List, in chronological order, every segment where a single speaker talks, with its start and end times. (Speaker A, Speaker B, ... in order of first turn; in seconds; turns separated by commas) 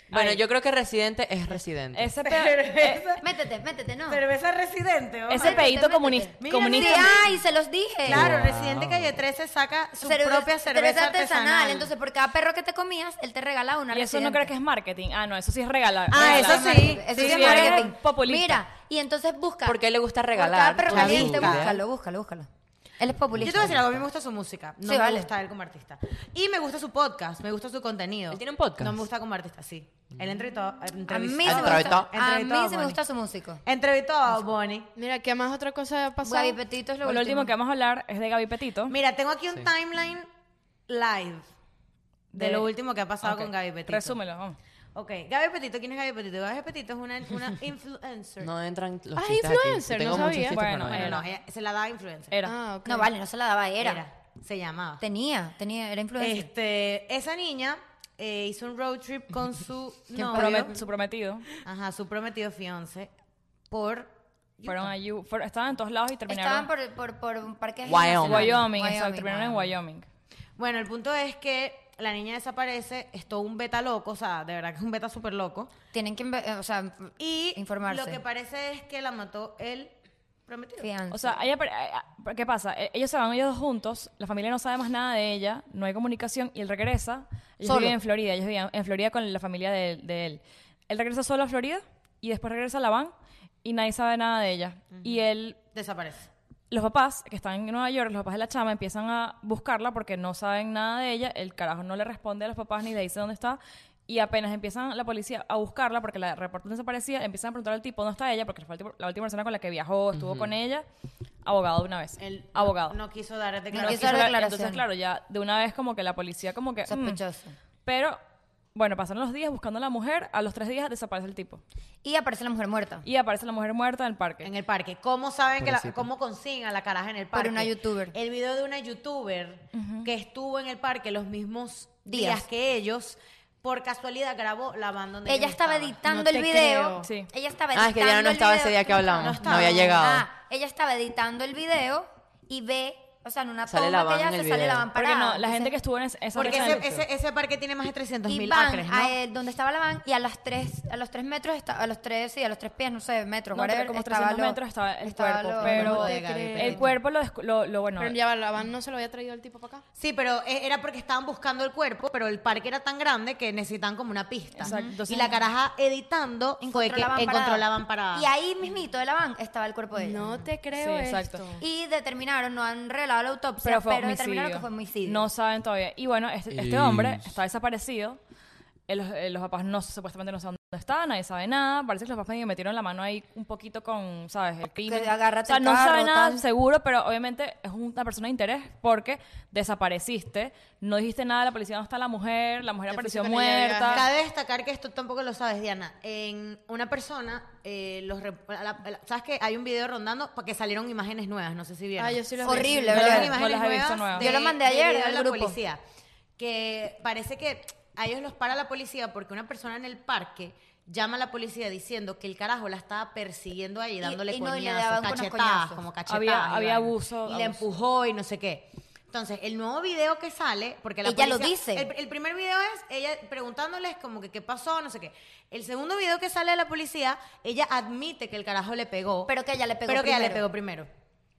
Speaker A: 0.1-0.4, Speaker B: 0.1-2.1, Speaker C: 1.9-3.1, Speaker A: 2.2-3.3, Speaker D: 3.2-4.2, Speaker A: 4.1-5.8, Speaker D: 5.3-8.3, Speaker C: 5.3-7.2, Speaker A: 6.4-7.4, Speaker A: 8.1-11.9, Speaker B: 8.1-9.2, Speaker D: 10.0-14.5, Speaker C: 13.9-18.6, Speaker A: 16.1-17.9, Speaker D: 16.1-19.8, Speaker B: 19.6-21.8, Speaker D: 20.3-22.5, Speaker A: 20.9-21.8, Speaker D: 23.0-23.8, Speaker B: 23.4-23.9, Speaker A: 23.4-33.0, Speaker D: 24.9-25.3, Speaker B: 28.3-29.0, Speaker D: 31.1-33.6, Speaker B: 31.4-32.1, Speaker A: 33.6-34.9, Speaker E: 35.0-36.6, Speaker D: 36.2-37.5, Speaker C: 37.0-39.0, Speaker A: 38.9-40.3, Speaker A: 40.9-41.5, Speaker C: 42.3-42.7, Speaker A: 42.4-44.2, Speaker C: 43.2-44.6, Speaker A: 44.9-48.5, Speaker B: 48.4-51.1, Speaker E: 49.1-50.6, Speaker C: 50.4-51.3, Speaker A: 50.9-52.4, Speaker E: 52.5-53.1, Speaker D: 52.9-54.0, Speaker A: 53.8-55.0, Speaker D: 55.0-56.5, Speaker A: 56.2-60.8, Speaker D: 60.2-60.8, Speaker C: 60.2-61.5, Speaker A: 61.6-63.1, Speaker A: 63.7-64.9, Speaker C: 64.7-66.7, Speaker D: 66.3-69.7, Speaker B: 67.8-68.7, Speaker C: 68.2-70.0, Speaker A: 70.6-75.7, Speaker D: 75.9-78.2, Speaker A: 77.2-79.9, Speaker A: 80.5-80.9, Speaker D: 80.8-81.4, Speaker C: 81.1-93.1, Speaker D: 87.6-88.0, Speaker C: 93.6-95.6, Speaker A: 94.9-96.3, Speaker C: 96.7-110.8, Speaker B: 110.1-110.5, Speaker C: 111.4-113.0, Speaker A: 112.2-114.4, Speaker C: 113.7-117.2, Speaker D: 113.7-114.8, Speaker D: 116.9-117.6, Speaker C: 117.8-118.2, Speaker C: 118.8-121.6, Speaker D: 122.0-123.1, Speaker C: 123.0-124.5, Speaker A: 124.4-136.0, Speaker B: 125.6-126.1, Speaker D: 127.3-128.2, Speaker C: 129.7-130.1, Speaker D: 132.1-132.4, Speaker D: 135.3-145.7, Speaker E: 136.1-137.1, Speaker C: 137.0-137.3, Speaker B: 137.7-140.3, Speaker A: 139.2-139.9, Speaker B: 143.7-144.9, Speaker C: 144.9-146.9, Speaker A: 146.3-149.2, Speaker D: 148.3-156.2, Speaker C: 153.5-158.2, Speaker A: 155.6-156.9, Speaker E: 155.7-156.8, Speaker E: 158.0-159.8, Speaker A: 160.0-168.3, Speaker D: 164.6-164.9, Speaker C: 164.6-165.4, Speaker D: 166.6-170.4, Speaker E: 170.0-171.6, Speaker C: 170.7-171.4, Speaker D: 171.6-175.2, Speaker C: 173.6-178.2, Speaker B: 176.5-177.3, Speaker C: 178.9-194.1, Speaker D: 184.8-186.4, Speaker E: 192.9-194.1, Speaker A: 193.9-205.8, Speaker E: 202.0-203.3, Speaker D: 202.4-203.3, Speaker C: 202.9-204.3, Speaker D: 204.2-205.6, Speaker A: 206.4-229.3, Speaker D: 214.0-215.8, Speaker C: 216.1-217.7, Speaker D: 221.0-221.9, Speaker D: 229.3-230.4, Speaker A: 229.9-230.9